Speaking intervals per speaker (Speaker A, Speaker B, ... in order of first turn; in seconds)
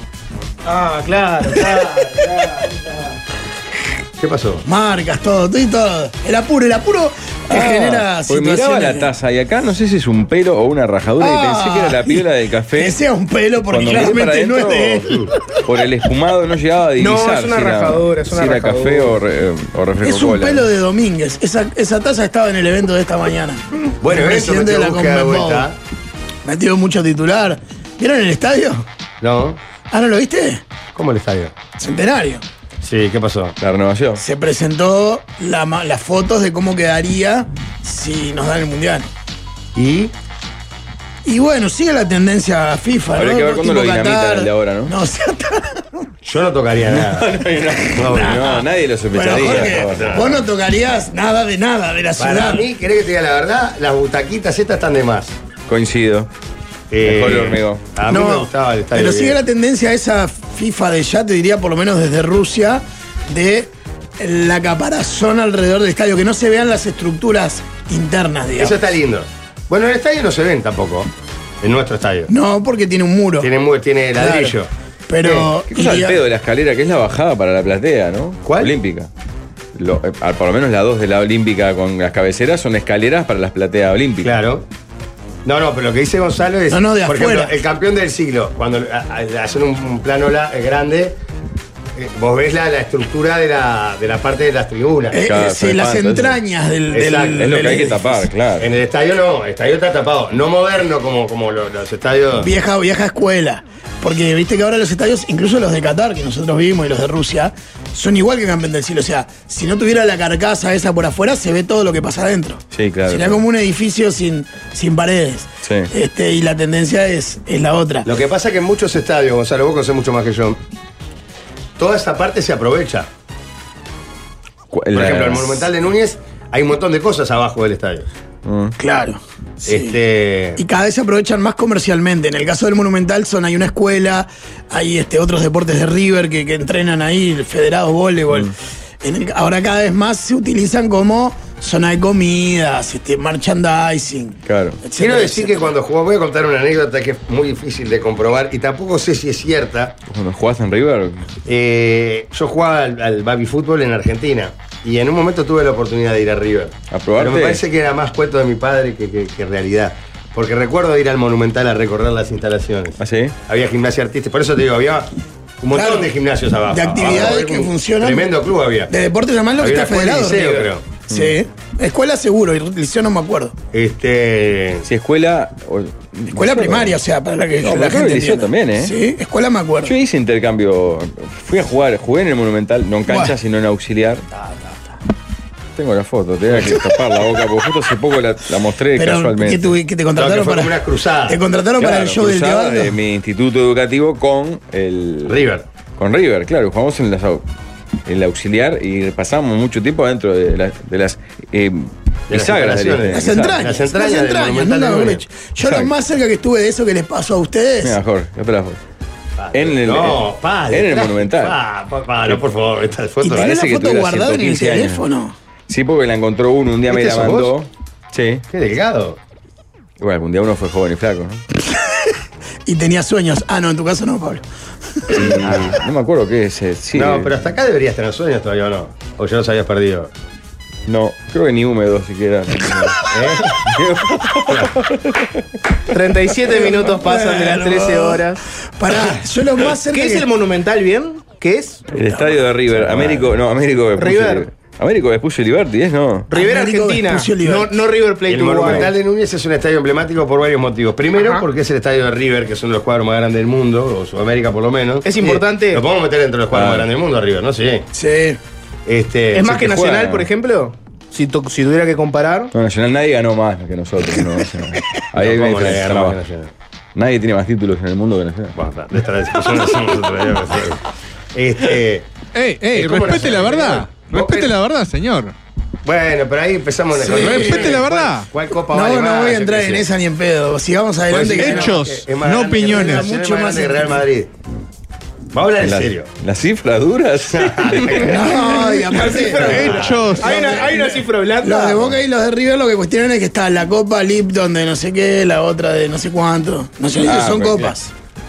Speaker A: 0.7-2.7, 17.0-19.2, 235.9-238.4, 239.9-241.8, 244.0-244.5, 246.3-248.9, 251.2-251.4, 255.1-255.8, 259.3-262.5, 288.6-291.9
Speaker B: 4.2-4.7, 15.0-15.3, 24.0-25.8, 29.2-29.6, 30.9-31.6, 32.8-33.6, 39.8-40.1, 46.2-47.3, 48.0-48.4, 49.3-50.4, 52.2-55.4, 56.9-59.4, 68.6-71.1, 71.6-72.3, 73.4-74.7, 75.2-75.5, 78.5-78.7, 84.2-84.7, 85.5-91.2, 92.0-95.2, 96.9-97.9, 98.6-102.5, 118.0-120.6, 121.8-123.1, 124.9-128.1, 129.7-130.6, 145.0-150.0, 151.4-165.1, 165.6-168.9, 169.6-170.8, 173.7-174.9, 190.2-191.4, 195.3-195.6, 202.3-205.2, 209.4-213.4, 216.9-217.5, 218.5-219.2, 225.4-225.8, 226.9-230.1, 233.1-233.6, 242.8-243.3, 248.3-257.9, 258.9-259.5, 265.2-266.5, 268.6-270.8, 271.3-272.1, 272.7-274.5, 275.9-279.8, 281.1-284.3, 285.3-286.1, 287.3-288.2, 289.4-290.2
Speaker C: 4.7-9.1, 11.2-15.3, 20.0-25.7, 26.4-28.9, 29.9-30.6, 31.8-32.4, 34.2-39.1, 41.2-46.1, 47.6-52.7, 58.1-68.8, 72.3-73.5, 74.2-74.5, 75.1-76.2, 86.7-87.5, 95.1-98.1, 102.4-118.1, 128.8-130.0, 130.6-145.7, 165.7-166.1, 166.7-168.3, 168.9-173.6, 176.3-179.9, 183.1-183.3, 189.0-192.9, 203.1-208.0, 213.2-215.3, 221.7-222.1, 222.7-224.4, 225.0-225.4, 236.5-238.2, 238.8-240.3, 241.9-242.4, 246.3-247.8, 257.9-258.4, 277.0-277.8, 278.7-281.8, 282.5-284.0, 288.0-289.7, 290.2-297.9
Speaker D: 7.5-13.0, 13.7-15.1, 15.6-20.7, 33.6-34.2, 43.2-45.0, 46.9-50.3, 55.7-56.3, 57.0-57.8, 75.7-79.1, 79.8-84.3, 95.2-96.4, 97.4-98.7, 112.7-113.4, 115.6-115.9, 124.7-125.7, 128.4-128.8, 144.5-144.8, 150.1-151.3, 156.9-157.6, 163.0-163.3, 171.1-171.4, 174.9-177.0, 177.6-178.9, 179.8-184.2, 185.8-189.7, 191.8-195.4, 196.0-197.4, 198.1-203.7, 205.6-205.9, 207.8-208.8, 209.5-211.6, 213.2-215.0, 215.7-218.4, 220.0-221.4, 225.1-227.3, 230.9-233.1, 233.6-235.4, 241.9-246.3, 256.5-256.9, 259.4-260.3, 262.5-266.2, 266.9-268.6, 285.6-288.4, 297.1-297.7
Speaker E: 272.3-275.3, 277.1-278.3, 281.4-283.1, 289.4-290.5